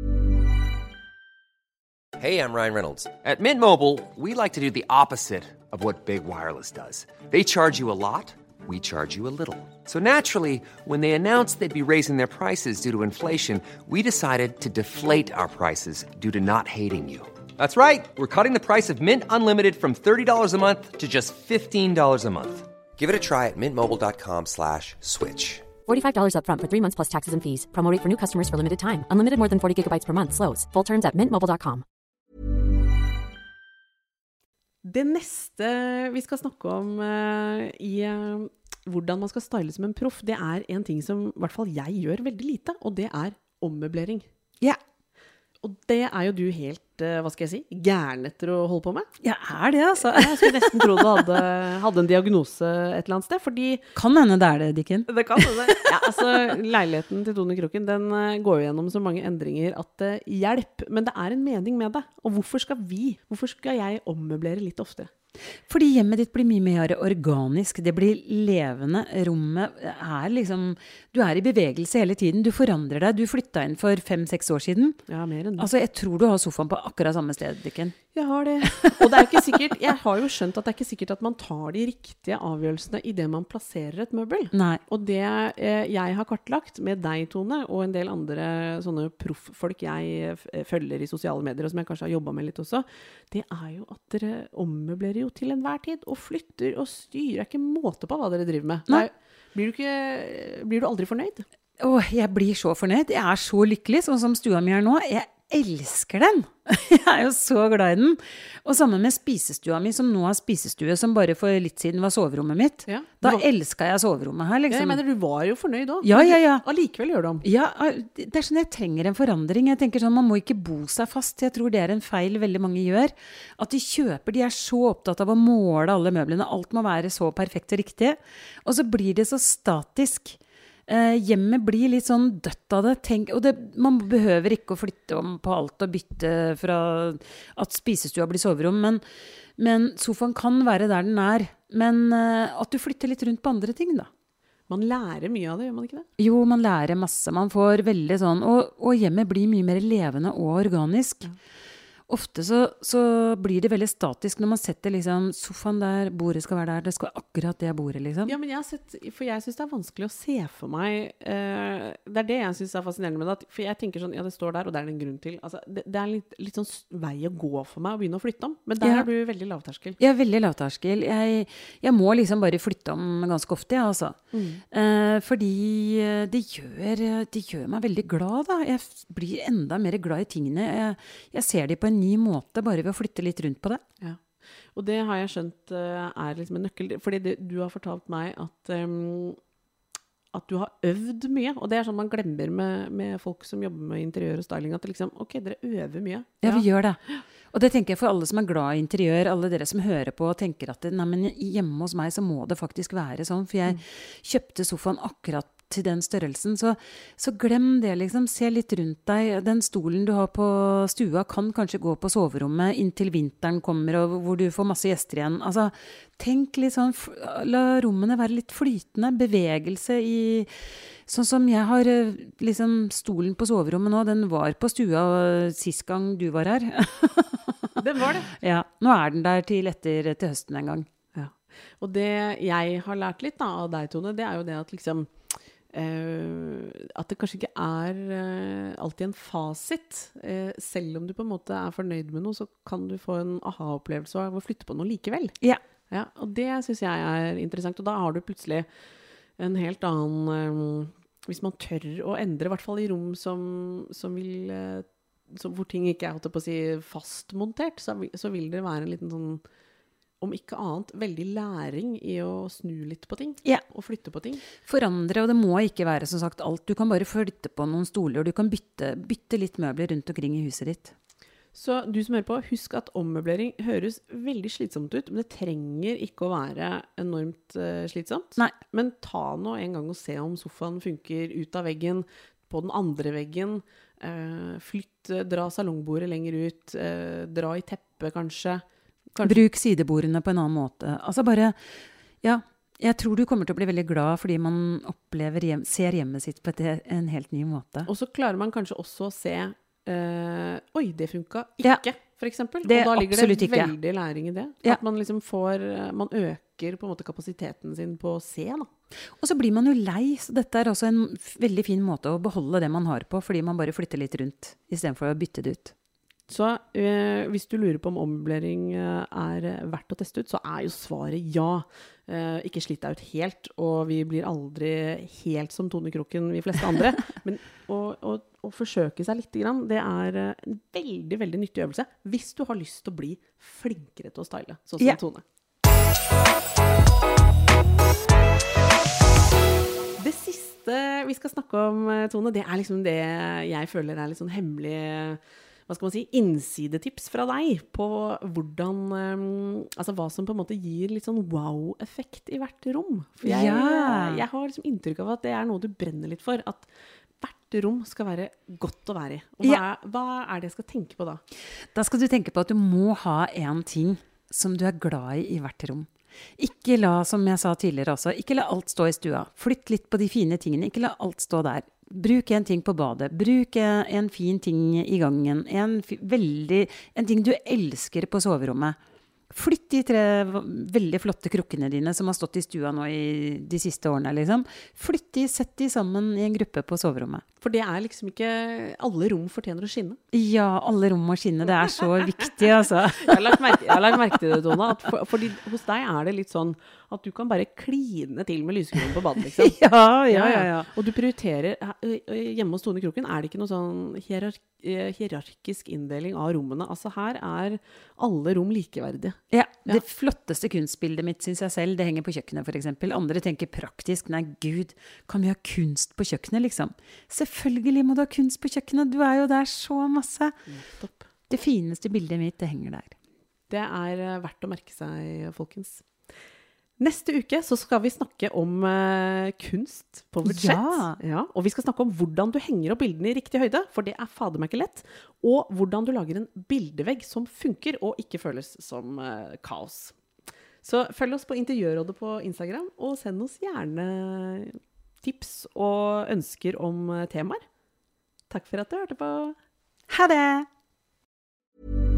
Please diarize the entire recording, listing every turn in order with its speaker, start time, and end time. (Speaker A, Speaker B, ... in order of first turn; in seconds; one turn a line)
Speaker A: 2.2-25.7
Speaker B: 25.9-31.8
Speaker C: 34.8-44.3
Speaker C: 45.6-49.1
Speaker D: 49.2-51.2
Speaker C: 50.0-53.9
Speaker D: 53.9-56.4
Speaker C: 55.1-65.1
Speaker D: 65.7-75.0
Speaker C: 75.1-75.7
Speaker D: 75.6-78.0
Speaker C: 78.1-101.4
Speaker D: 78.7-79.6
Speaker D: 84.5-84.8
Speaker D: 101.8-115.0
Speaker C: 112.8-113.4
Speaker C: 114.7-117.4
Speaker D: 116.0-116.6
Speaker D: 117.4-139.0
Speaker D: 139.6-144.1
Speaker C: 144.7-146.1
Speaker D: 146.2-151.3
Speaker D: 152.1-158.3
Speaker C: 158.2-170.0
Speaker D: 168.8-169.1
Speaker D: 170.0-174.2
Speaker C: 174.3-174.6
Speaker D: 174.7-183.8
Speaker C: 184.7-189.4
Speaker C: 190.3-197.2
Speaker D: 196.4-227.8
Speaker C: 227.8-228.3
Speaker D: 228.3-230.9
Speaker C: 231.1-235.1
Speaker C: 235.7-245.3
Speaker C: 245.9-248.7
Speaker C: 249.4-259.4
Speaker C: 260.2-264.4
Speaker D: 264.6-270.9
Speaker C: 271.5-289.4
Speaker D: 289.2-291.6
Speaker D: 292.2-297.9
Speaker C: 297.9-308.7
Speaker D: 302.6-303.7
Speaker D: 309.2-315.7
Speaker C: 316.3-335.2
Speaker C: 340.0-361.2
Speaker D: 353.2-354.2
Speaker D: 361.7-378.8
Speaker D: 379.3-387.2
Speaker C: 387.4-390.0
Speaker D: 390.1-394.2
Speaker C: 392.9-399.6
Speaker D: 399.4-400.7
Speaker C: 400.1-409.8
Speaker D: 409.3-420.4
Speaker C: 420.5-421.1
Speaker D: 421.3-422.9
Speaker C: 423.5-425.9
Speaker C: 426.8-439.9
Speaker D: 430.2-431.0
Speaker C: 440.6-447.4
Speaker C: 448.3-449.4
Speaker D: 449.9-450.5